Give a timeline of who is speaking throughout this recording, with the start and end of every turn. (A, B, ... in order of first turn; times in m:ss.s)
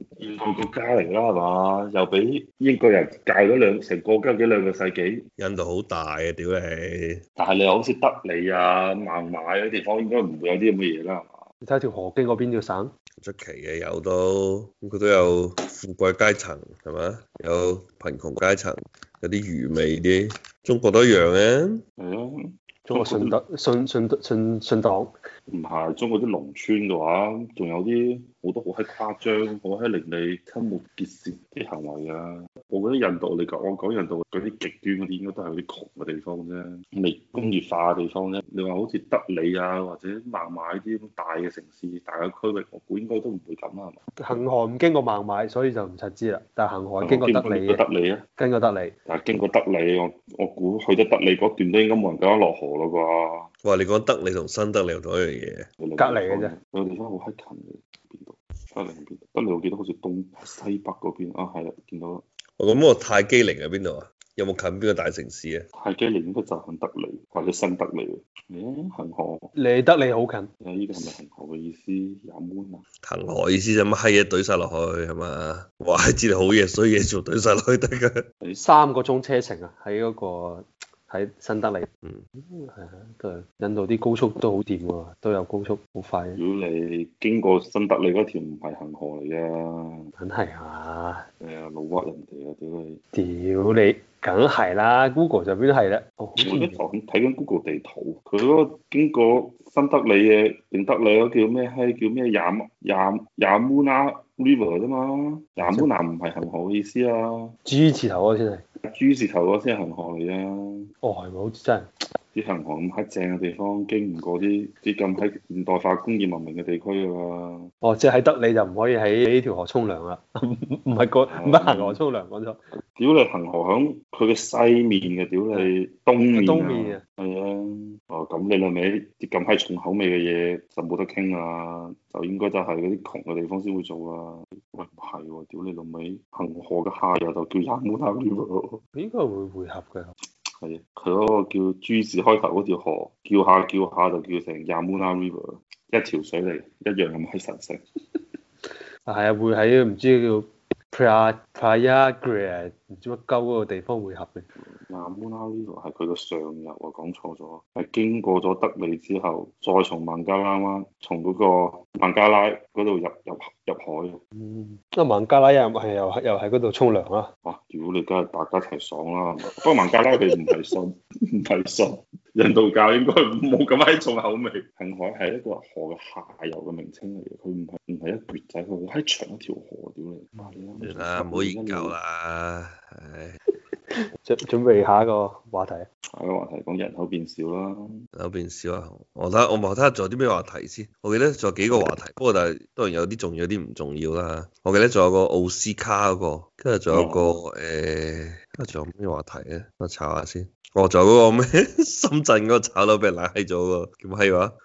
0:00.2-0:05.2 A
0:05.4-0:07.2 B
0:07.4-0:11.5 A
0:11.6-0:12.9 C
0:13.2-0:21.8 B
0:22.0-0:23.4 A
0:22.9-0:25.1 C
0:25.5-0:44.4 A
0:44.2-0:47.8 C
0:47.0-0:48.2 A
0:48.4-0:48.9 C
0:49.1-0:53.5 A
0:53.6-0:55.7 B
0:55.8-1:02.2 A
0:56.0-0:56.5 C
1:02.6-1:05.7 B
1:05.7-1:09.5 A
1:09.6-1:10.5 C
1:10.6-1:12.8 A
1:13.0-1:18.2 B
1:18.6-1:26.4 C
1:26.4-1:30.1 A
1:30.2-1:31.2 C
1:31.4-1:33.0 A
1:33.1-1:36.8 C
1:36.4-1:47.5 A
1:45.6-1:45.9 C
1:47.6-1:48.6 C
1:48.8-1:50.9 A
1:51.0-1:51.9 C
1:52.3-1:57.7 A
1:57.8-2:02.6 C
2:01.3-2:02.0 A
2:02.8-2:18.8 A
2:06.3-2:07.0 C
2:18.9-2:20.1 C
2:20.6-2:27.8 A
2:29.0-2:34.5 C
2:34.6-2:44.2 A
2:44.4-2:47.3 C
2:47.4-3:02.0 A
3:00.8-3:03.4 B
3:04.2-3:05.9 C
3:06.1-3:08.0 A
3:08.1-3:24.5 B
3:16.9-3:17.4 A